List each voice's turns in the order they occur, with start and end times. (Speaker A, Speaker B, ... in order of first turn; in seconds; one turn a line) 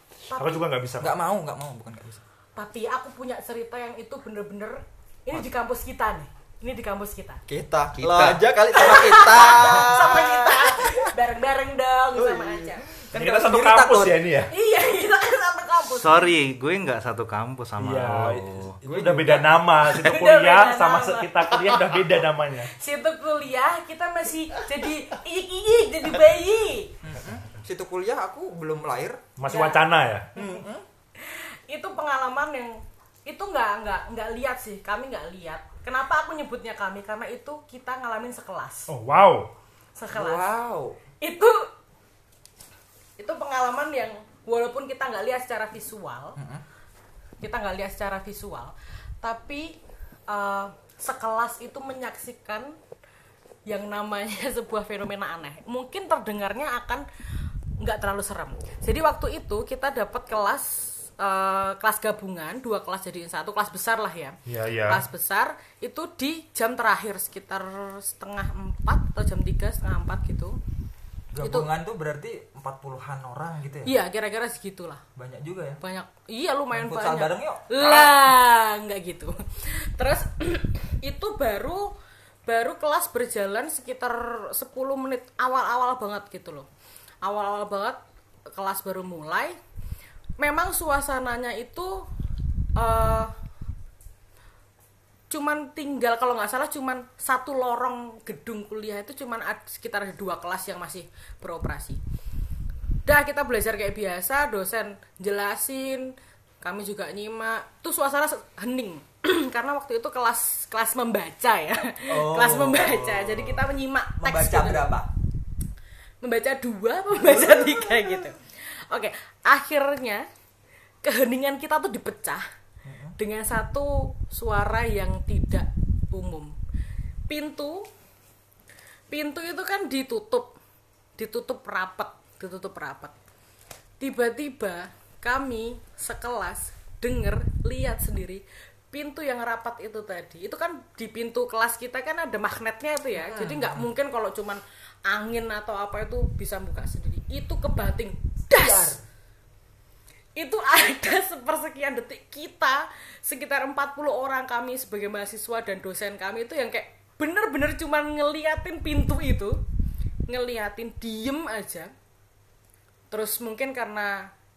Speaker A: 0.3-0.6
Speaker B: 0.4-1.1
Speaker C: 1.0-2.2
Speaker A: 2.6-7.4
Speaker C: 7.5-11.1
Speaker D: 8.0-8.5
Speaker A: 8.7-12.8
Speaker D: 9.2-9.8
Speaker C: 12.2-14.2
Speaker B: 13.1-14.5
Speaker A: 14.5-16.3
Speaker D: 15.8-18.8
Speaker B: 17.8-22.7
Speaker C: 18.9-19.6
Speaker A: 19.9-22.1
Speaker A: 22.7-26.9
Speaker C: 27.0-29.2
Speaker B: 29.4-30.3
Speaker A: 29.5-29.8
Speaker C: 30.4-30.9
Speaker A: 31.2-38.9
Speaker B: 38.9-39.5
Speaker A: 40.0-40.5
Speaker C: 40.1-41.0
Speaker A: 41.2-41.7
Speaker A: 43.2-46.4
Speaker C: 46.4-46.6
Speaker A: 47.4-52.8
Speaker A: 53.7-57.0
Speaker A: 57.8-70.6
Speaker B: 64.5-65.0
Speaker C: 71.3-73.9
Speaker A: 71.4-71.7
Speaker A: 73.8-75.0
Speaker C: 75.2-75.8
Speaker A: 75.8-81.9
Speaker C: 76.7-78.1
Speaker A: 82.5-86.7
Speaker A: 87.2-88.0
Speaker A: 88.5-89.6
Speaker A: 90.4-92.1
Speaker A: 92.8-93.3
Speaker A: 95.3-102.0
Speaker A: 103.0-114.9
Speaker C: 112.1-113.6
Speaker C: 114.2-115.1
Speaker A: 116.2-120.2
Speaker C: 117.2-118.2
Speaker A: 121.0-122.5
Speaker C: 122.8-123.2
Speaker A: 123.2-126.5
Speaker A: 127.3-127.9
Speaker A: 129.1-130.6
Speaker A: 131.2-133.1
Speaker A: 134.0-149.0
Speaker C: 143.2-143.9
Speaker C: 148.5-149.0
Speaker A: 150.4-159.6
Speaker A: 160.3-161.9
Speaker A: 163.1-164.2